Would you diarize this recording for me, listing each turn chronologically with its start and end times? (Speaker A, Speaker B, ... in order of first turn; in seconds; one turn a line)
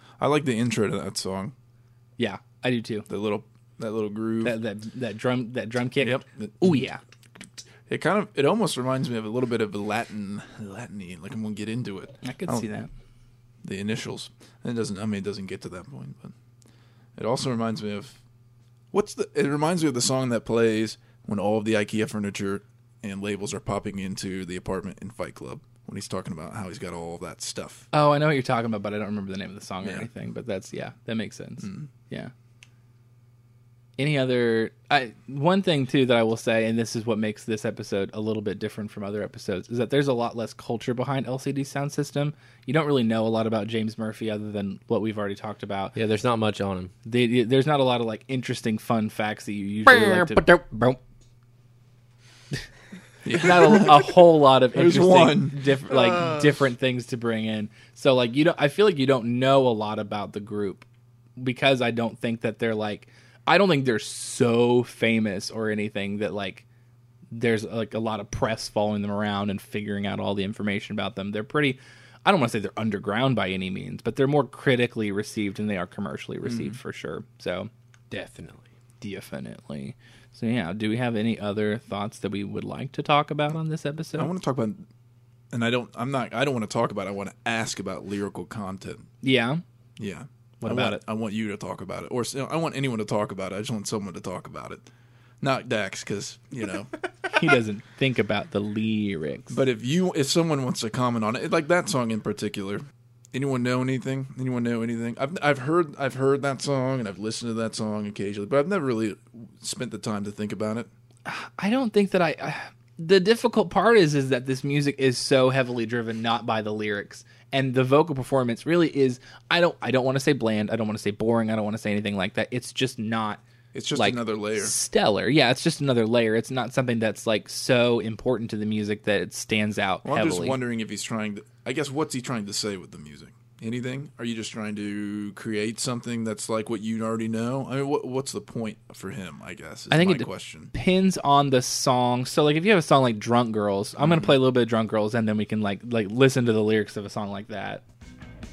Speaker A: 0.2-1.5
Speaker B: 2.2-3.1
Speaker A: 3.1-4.6
Speaker B: 4.4-7.0
Speaker A: 6.0-6.9
Speaker A: 7.9-12.7
Speaker B: 12.2-12.9
Speaker A: 13.6-16.3
Speaker A: 17.2-18.2
Speaker A: 18.9-27.9
Speaker B: 27.9-32.3
Speaker A: 29.8-30.1
Speaker A: 31.6-31.9
Speaker B: 34.0-46.0
Speaker C: 46.0-46.9
Speaker B: 47.1-50.4
Speaker C: 49.9-51.0
Speaker A: 53.2-54.2
Speaker B: 53.4-60.9
Speaker A: 54.7-55.6
Speaker B: 61.4-66.7
Speaker B: 67.3-77.7
Speaker A: 76.4-76.8
Speaker C: 78.1-78.7
Speaker B: 79.0-84.3
Speaker A: 84.2-84.9
Speaker A: 85.5-89.1
Speaker B: 89.2-89.6
Speaker A: 90.0-94.8
Speaker B: 90.6-91.0
Speaker A: 95.4-96.9
Speaker B: 97.3-99.6
Speaker A: 99.5-110.9
Speaker B: 111.3-123.4
Speaker A: 123.7-124.8
Speaker B: 123.9-130.6
Speaker A: 130.0-140.7
Speaker B: 139.9-147.8
Speaker A: 144.0-144.4